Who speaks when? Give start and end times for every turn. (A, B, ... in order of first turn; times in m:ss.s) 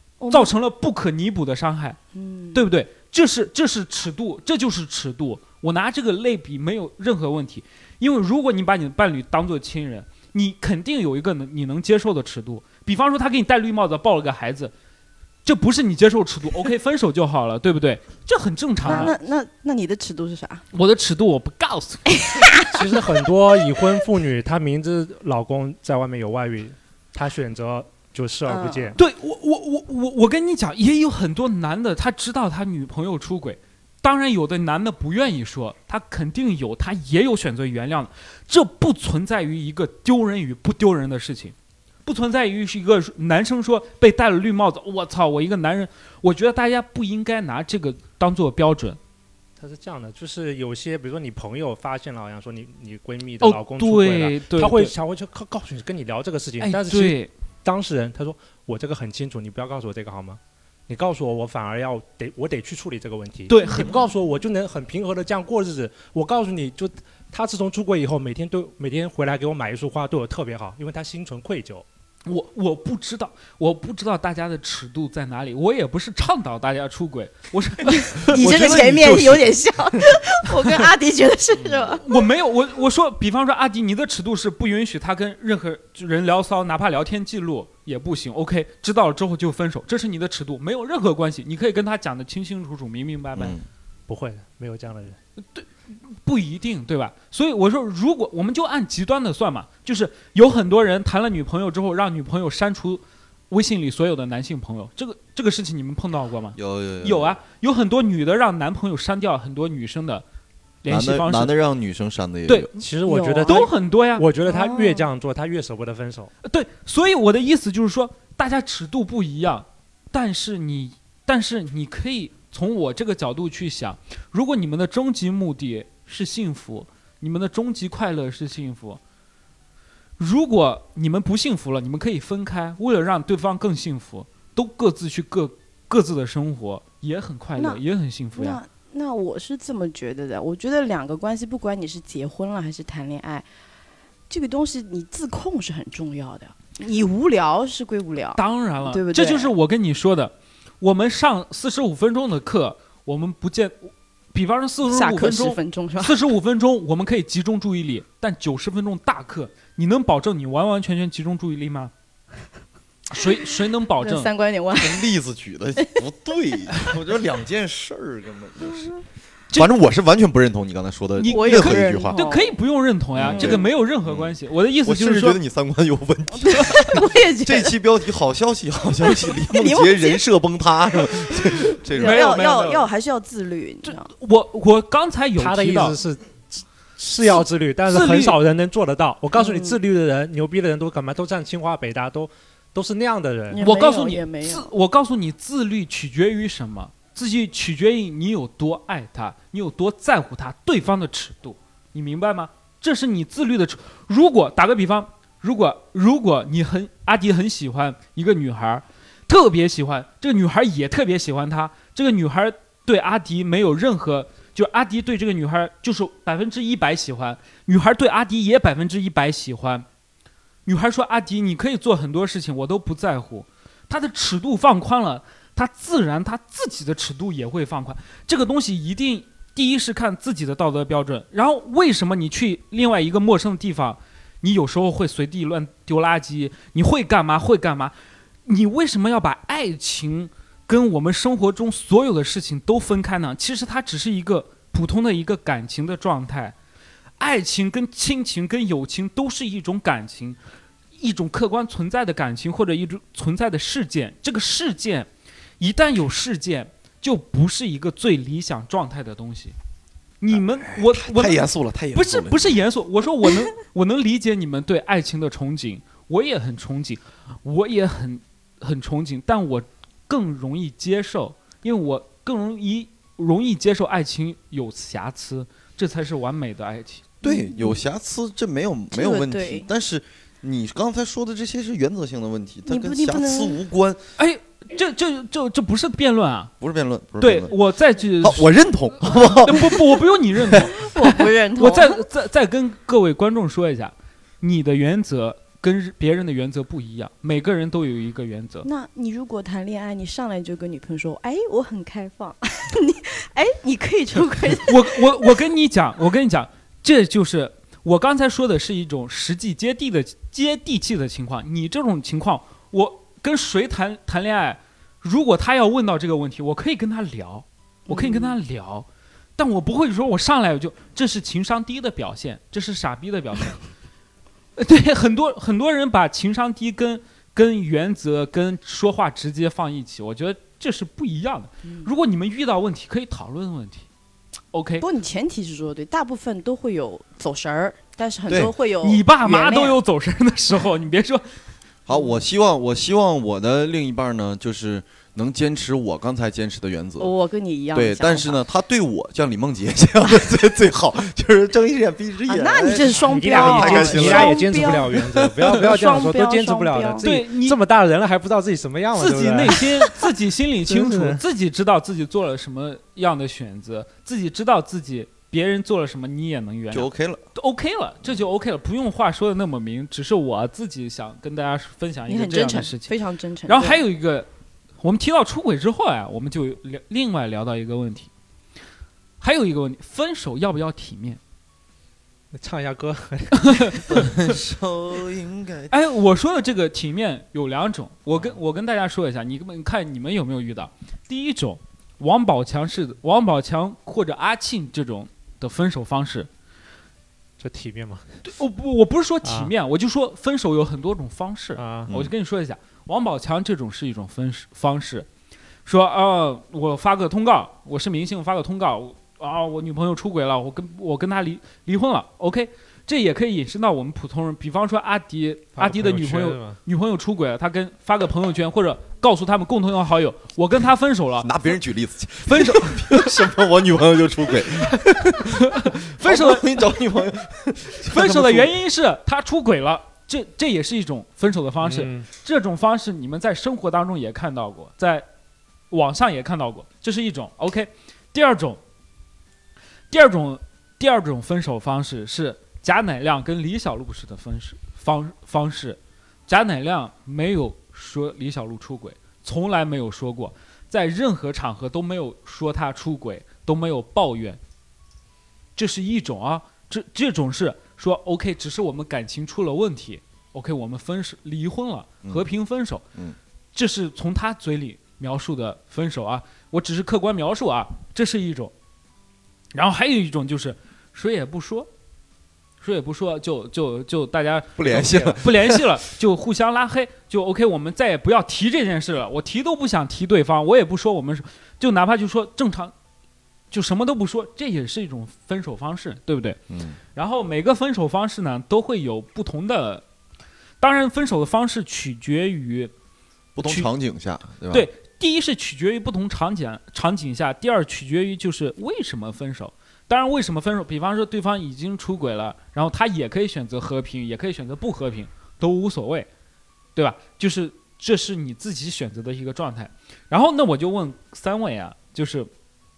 0:00.2-0:00.5 A
0:00.3-0:02.0 B
0:02.1-0:02.6 A
0:02.5-0:14.7 B
0:15.4-0:19.2 B
0:18.8-0:19.2 C
0:18.8-0:20.6 A
0:20.7-0:22.2 B
0:22.1-0:22.8 A
0:22.7-0:29.0 C
0:28.5-0:29.0 A
0:29.0-0:41.6 B
0:42.1-0:49.0 B
0:49.6-1:11.8 C
0:53.4-0:54.9 B
0:56.6-0:57.3 B
1:03.5-1:04.0 B
1:12.3-1:19.5 B
1:18.1-1:22.0 A
1:22.0-1:33.6 B
1:33.4-1:33.6 D
1:34.1-1:35.2 C
1:35.5-1:50.2 B
1:46.6-1:47.4 D
1:50.8-1:51.5 B
1:50.9-1:52.7 D
1:52.8-1:56.3 C
1:53.0-1:53.7 A
1:53.4-1:54.3 B
1:54.5-1:55.1 A
1:56.4-2:09.0 B
2:10.2-2:18.6 B
2:17.6-2:17.8 A
2:18.3-2:23.5 A
2:24.3-2:29.5 A
2:28.4-2:41.9 B
2:34.8-2:36.2 A
2:43.1-2:44.3 B
2:44.0-2:45.0 A
2:44.8-2:48.9 D
2:49.5-2:52.2 D
2:51.2-2:55.4 B
2:51.3-2:52.6 A
2:53.2-3:02.4 D
2:53.3-2:53.6 A
2:56.4-2:57.7 A
2:59.1-3:00.2 A
3:01.9-3:04.1 A
3:02.0-3:02.9 B
3:03.8-3:06.0 B
3:05.4-3:13.6 C
3:07.9-3:08.4 B
3:09.4-3:09.8 A
3:13.5-3:14.7 A
3:13.6-3:39.9 B
3:40.7-3:57.9 B
3:58.5-4:06.6 B
4:07.2-4:10.4 B
4:11.0-4:19.6 B
4:20.2-4:37.1 B
4:20.3-4:22.5 D
4:37.2-4:44.0 D
4:37.2-4:37.8 A
4:38.9-4:39.7 A
4:42.7-4:43.6 A
4:44.2-4:46.5 B
4:46.6-4:47.6 D
4:47.2-4:48.5 B
4:48.2-4:50.7 D
4:49.1-4:58.7 B
4:50.6-4:52.0 A
4:58.6-5:05.0 A
5:04.6-5:18.9 B
5:17.9-5:18.4 A
5:19.4-5:23.6 B
5:24.6-5:33.9 B
5:31.7-5:31.9 A
5:34.5-5:34.9 B
5:34.8-5:39.8 A
5:38.3-5:38.5 D
5:38.8-5:41.2 B
5:41.9-5:47.1 D
5:47.0-5:48.4 A
5:47.7-5:55.4 D
5:52.3-5:57.1 A
5:53.0-6:00.1 C
5:57.0-5:57.6 B
5:59.0-6:12.9 B
6:00.7-6:01.2 C
6:06.7-6:07.2 D
6:12.1-6:13.8 A
6:13.5-6:14.3 B
6:14.8-6:18.1 B
6:19.2-6:21.2 B
6:22.3-6:24.1 C
6:23.3-6:24.0 B
6:23.9-6:25.7 D
6:25.7-6:36.3 B
6:37.4-6:38.2 C
6:38.2-6:45.1 B
6:39.2-6:39.5 C
6:41.6-6:41.9 C
6:45.7-7:01.3 B
6:55.6-6:56.6 C
7:01.2-7:08.5 D
7:02.3-7:03.2 B
7:05.0-7:06.6 B
7:07.8-7:15.1 B
7:11.6-7:12.1 C
7:15.7-7:18.6 B
7:19.9-7:34.4 B
7:35.6-7:42.8 B
7:43.6-7:48.5 B
7:49.5-7:51.7 B
7:52.6-8:02.7 B
7:54.6-7:55.7 D
8:03.5-8:06.4 B
8:06.5-8:06.8 D
8:07.0-8:09.8 B
8:10.6-8:12.7 B
8:13.4-8:14.7 D
8:13.4-8:13.7 B
8:14.5-8:26.1 B
8:26.8-8:32.3 B